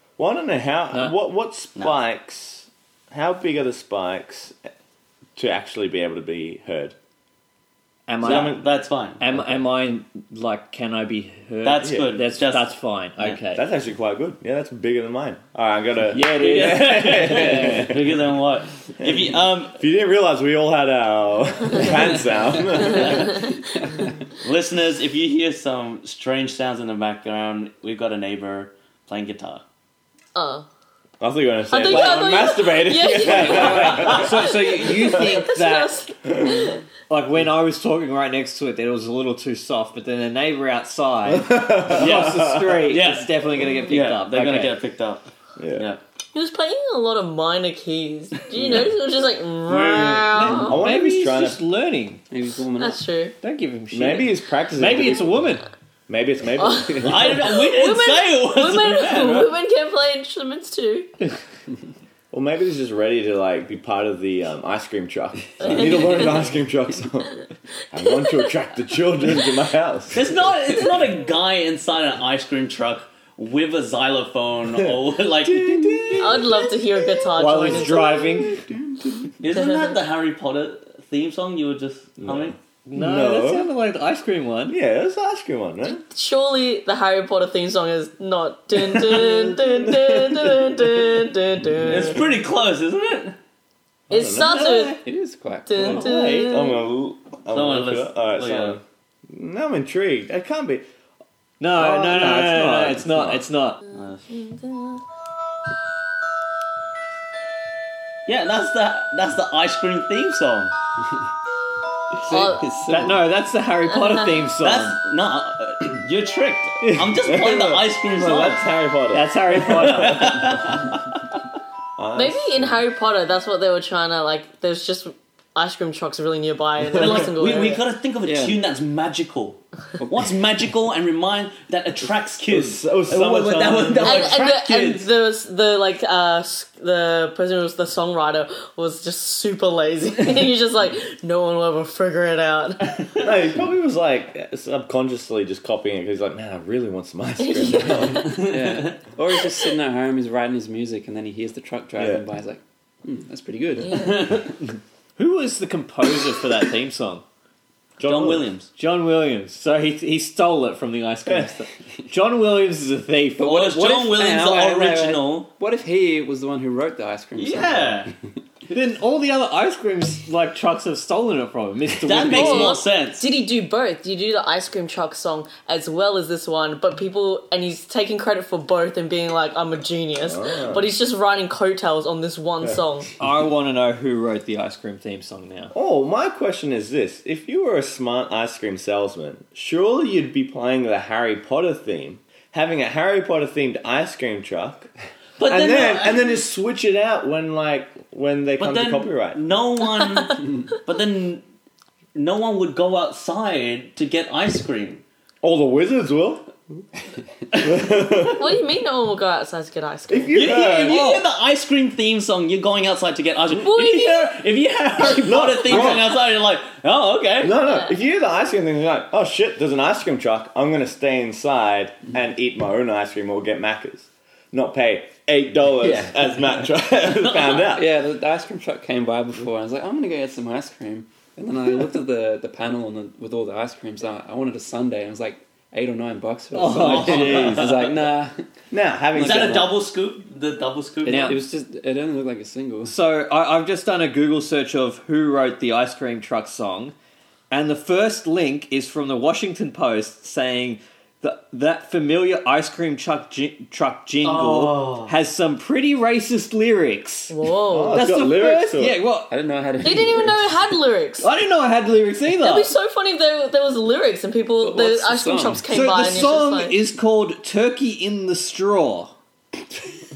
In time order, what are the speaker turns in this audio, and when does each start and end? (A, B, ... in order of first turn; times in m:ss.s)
0:00.2-0:04.6 A
0:05.4-0:07.0 A
0:08.1-0:08.6 B
0:08.2-0:08.6 A
0:08.2-0:09.2 C
0:09.2-0:13.6 B
0:11.6-0:13.4 C
0:13.5-0:18.1 A
0:16.1-0:17.9 D
0:16.3-0:19.8 C
0:19.0-0:23.5 A
0:22.8-0:23.3 C
0:24.4-0:29.6 C
0:30.4-0:30.7 E
0:31.2-0:34.4 A
0:31.7-0:36.8 E
0:31.8-0:32.3 C
0:33.3-0:34.2 D
0:33.3-0:36.0 B
0:33.6-0:34.2 C
0:37.1-0:44.7 B
0:41.3-0:42.9 A
0:41.9-0:43.3 C
0:43.9-0:46.0 C
0:45.6-0:45.9 A
0:46.3-0:50.8 E
0:48.5-0:48.9 A
0:49.7-0:50.7 C
0:50.4-0:52.2 B
0:50.4-0:51.6 A
0:52.3-0:53.0 D
0:52.8-0:53.3 E
0:53.4-0:55.7 B
0:53.9-0:55.5 A
0:56.1-0:57.4 A
0:56.6-1:01.1 E
0:57.0-0:59.5 C
1:02.3-1:10.3 A
1:05.6-1:05.9 C
1:05.7-1:06.4 E
1:08.0-1:08.6 E
1:10.1-1:16.4 C
1:14.7-1:19.3 A
1:16.2-1:18.3 E
1:17.4-1:18.6 B
1:19.4-1:22.6 C
1:22.2-1:23.7 A
1:22.9-1:24.8 B
1:24.7-1:26.0 A
1:25.8-1:32.2 E
1:29.0-1:31.2 A
1:31.8-1:32.1 A
1:31.8-1:33.4 C
1:34.1-1:34.7 A
1:34.1-1:35.0 E
1:34.3-1:35.0 B
1:35.0-1:36.1 D
1:35.7-1:36.8 E
1:35.8-1:40.8 A
1:37.5-1:38.8 C
1:41.6-1:43.8 B
1:41.8-1:43.4 A
1:43.9-1:44.3 C
1:44.3-1:45.0 E
1:48.3-1:50.7 C
1:52.2-1:53.3 D
1:52.3-1:52.8 E
1:52.8-1:55.0 B
1:54.1-1:54.4 E
1:54.6-1:58.6 C
1:56.8-1:57.2 B
1:57.2-2:00.4 A
1:59.1-2:00.6 B
1:59.6-2:01.0 C
2:02.0-2:02.8 A
2:02.2-2:07.8 E
2:06.9-2:07.3 A
2:06.9-2:15.1 C
2:08.3-2:08.6 D
2:10.0-2:10.2 D
2:12.5-2:14.4 A
2:14.0-2:23.1 E
2:23.2-2:28.4 A
2:27.4-2:28.6 E
2:28.3-2:34.4 D
2:28.7-2:29.0 C
2:32.0-2:32.2 A
2:33.9-2:34.3 E
2:33.9-2:34.5 C
2:35.2-2:37.2 B
2:38.0-2:38.5 A
2:38.0-2:38.7 C
2:38.8-2:44.1 B
2:41.3-2:41.5 A
2:43.4-2:45.5 C
2:43.4-2:48.1 D
2:47.4-2:48.1 C
2:48.7-2:52.8 B
2:52.0-2:53.3 C
2:52.3-3:03.1 E
3:00.2-3:00.9 A
3:03.2-3:05.7 B
3:05.7-3:19.4 A
3:15.4-3:16.4 C
3:18.6-3:21.4 C
3:22.2-3:25.0 C
3:25.4-3:26.5 A
3:27.5-3:28.6 A
3:28.3-3:30.5 E
3:30.1-3:31.0 A
3:30.3-3:37.6 C
3:30.9-3:31.2 B
3:33.5-3:34.4 E
3:35.0-3:35.9 E
3:35.1-3:36.1 A
3:37.4-3:47.9 A
3:37.6-3:38.0 E
3:45.8-3:46.4 D
3:47.1-3:47.7 C
3:47.7-3:58.4 D
3:56.5-3:57.9 B
3:56.7-3:57.9 C
3:58.7-3:59.7 A
3:59.1-3:59.7 D
3:59.2-4:01.4 C
4:01.1-4:03.0 D
4:01.1-4:01.4 B
4:02.9-4:06.9 B
4:07.5-4:17.3 B
4:14.2-4:15.1 C
4:17.3-4:18.1 E
4:17.7-4:19.0 A
4:17.9-4:19.3 B
4:19.3-4:20.6 D
4:19.8-4:21.3 E
4:21.2-4:22.7 B
4:22.4-4:26.8 E
4:24.6-4:25.7 D
4:25.7-4:29.1 B